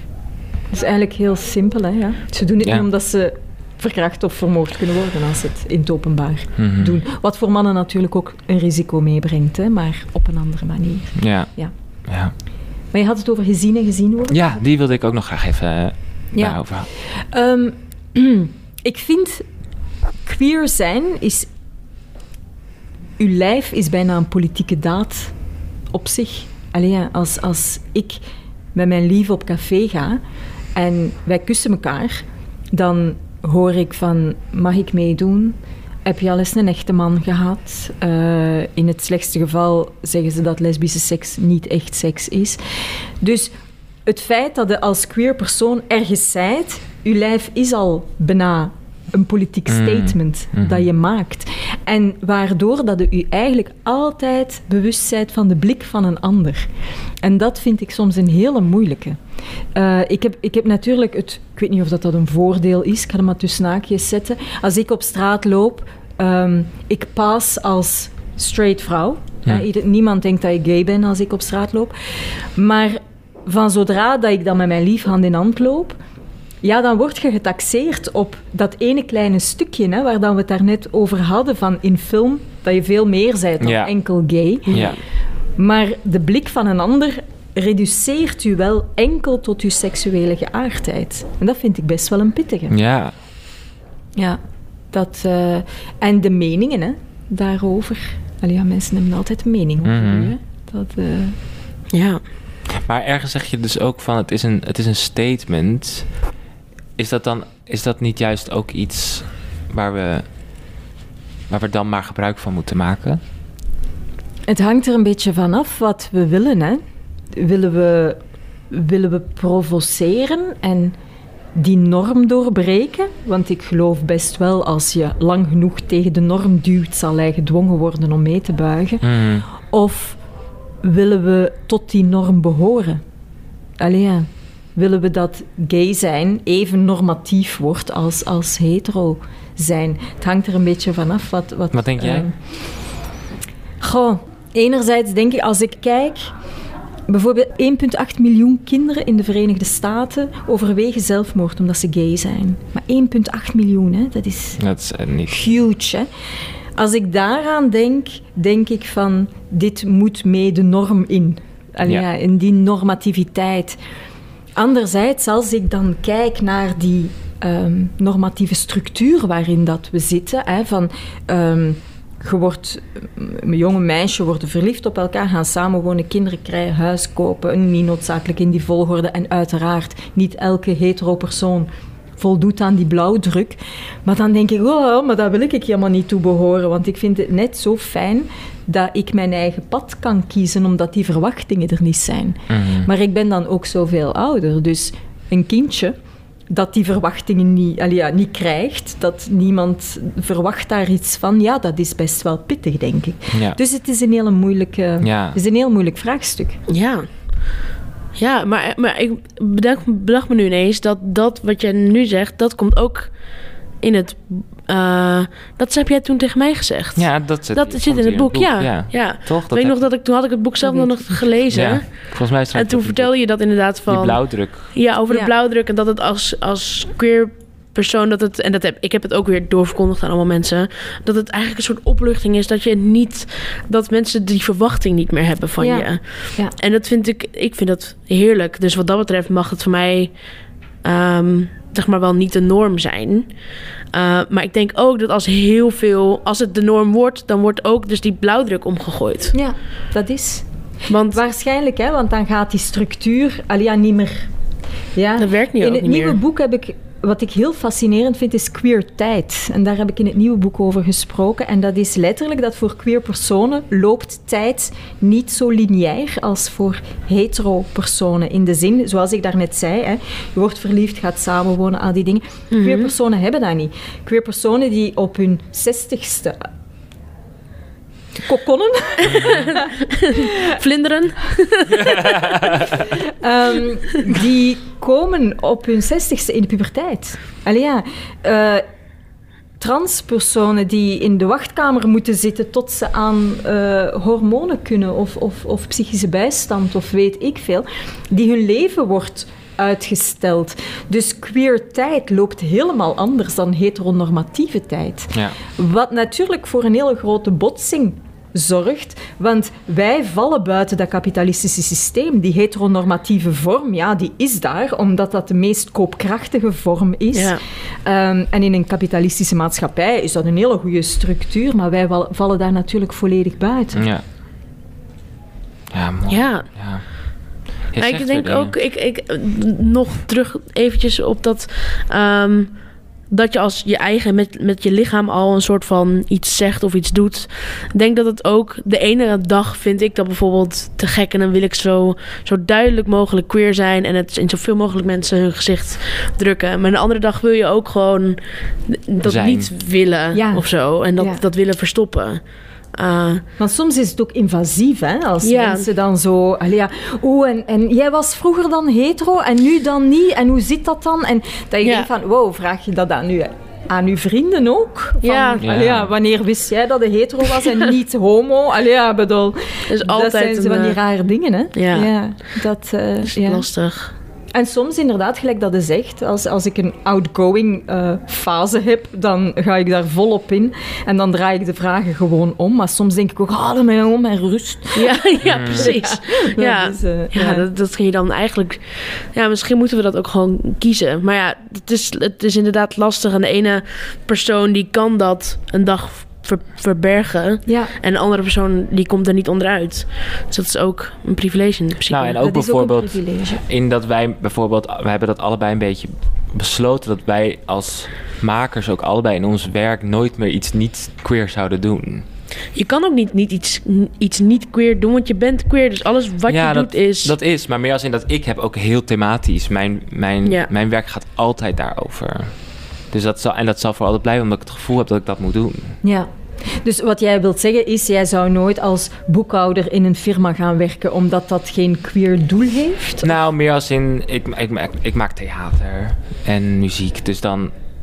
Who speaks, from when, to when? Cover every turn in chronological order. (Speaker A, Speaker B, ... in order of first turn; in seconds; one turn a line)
Speaker A: 0.7-11.7
Speaker B: 6.6-7.0
Speaker B: 11.2-11.5
Speaker B: 12.1-12.3
Speaker A: 12.9-14.6
Speaker B: 14.3-16.9
Speaker A: 16.3-19.5
Speaker A: 20.2-21.5
Speaker A: 23.2-25.3
Speaker A: 25.9-28.2
Speaker A: 28.8-30.2
Speaker A: 30.8-43.5
Speaker A: 44.1-56.7
Speaker B: 49.7-50.9
Speaker A: 57.2-59.2
Speaker A: 59.7-71.9
Speaker A: 72.5-76.0
Speaker A: 76.6-84.9
Speaker B: 83.6-83.9
Speaker B: 84.7-85.0
Speaker A: 85.6-92.8
Speaker B: 92.7-93.1
Speaker A: 94.9-101.4
Speaker B: 99.8-100.3
Speaker C: 101.9-102.2
Speaker B: 102.7-106.1
Speaker B: 107.0-110.2
Speaker B: 111.5-113.2
Speaker A: 114.5-116.8
Speaker A: 117.3-121.0
Speaker A: 121.5-130.2
Speaker B: 129.0-129.5
Speaker A: 130.8-133.0
Speaker A: 133.8-142.4
Speaker B: 141.7-142.3
Speaker A: 143.8-146.3
Speaker A: 147.1-154.6
Speaker B: 154.6-155.5
Speaker A: 155.3-156.1
Speaker A: 156.8-163.8
Speaker A: 164.6-196.0
Speaker B: 192.5-192.9
Speaker A: 196.5-206.6
Speaker B: 203.3-203.6
Speaker B: 205.0-205.4
Speaker C: 206.7-207.1
Speaker C: 208.2-213.2
Speaker C: 213.8-240.1
Speaker B: 217.0-219.8
Speaker A: 220.6-221.2
Speaker B: 221.5-223.1
Speaker B: 223.9-224.7
Speaker A: 235.6-236.5
Speaker C: 240.8-243.3
Speaker C: 243.9-249.3
Speaker A: 249.3-250.4
Speaker C: 250.9-251.2
Speaker A: 251.1-254.3
Speaker A: 255.0-276.5
Speaker C: 255.2-256.2
Speaker C: 272.5-272.9
Speaker A: 278.2-279.4
Speaker C: 279.0-282.5
Speaker B: 281.9-282.4
Speaker A: 283.0-288.6
Speaker A: 289.6-323.8
Speaker C: 317.1-317.4
Speaker B: 323.8-324.0
Speaker B: 325.7-326.9
Speaker C: 326.1-326.5
Speaker B: 327.7-328.6
Speaker C: 327.8-332.5
Speaker C: 333.1-352.2
Speaker B: 349.0-349.5
Speaker A: 350.1-350.4
Speaker C: 352.7-353.2
Speaker A: 353.4-373.5
Speaker C: 355.2-355.7
Speaker C: 361.6-361.9
Speaker C: 365.0-365.4
Speaker B: 365.4-365.9
Speaker C: 369.7-370.8
Speaker C: 371.5-371.9
Speaker C: 373.1-373.9
Speaker A: 374.3-387.4
Speaker C: 384.8-402.2
Speaker B: 385.2-385.7
Speaker A: 397.5-397.7
Speaker B: 401.9-412.1
Speaker A: 402.2-403.4
Speaker C: 412.5-417.1
Speaker B: 416.3-422.3
Speaker B: 422.9-425.8
Speaker A: 425.8-433.1
Speaker B: 433.0-437.5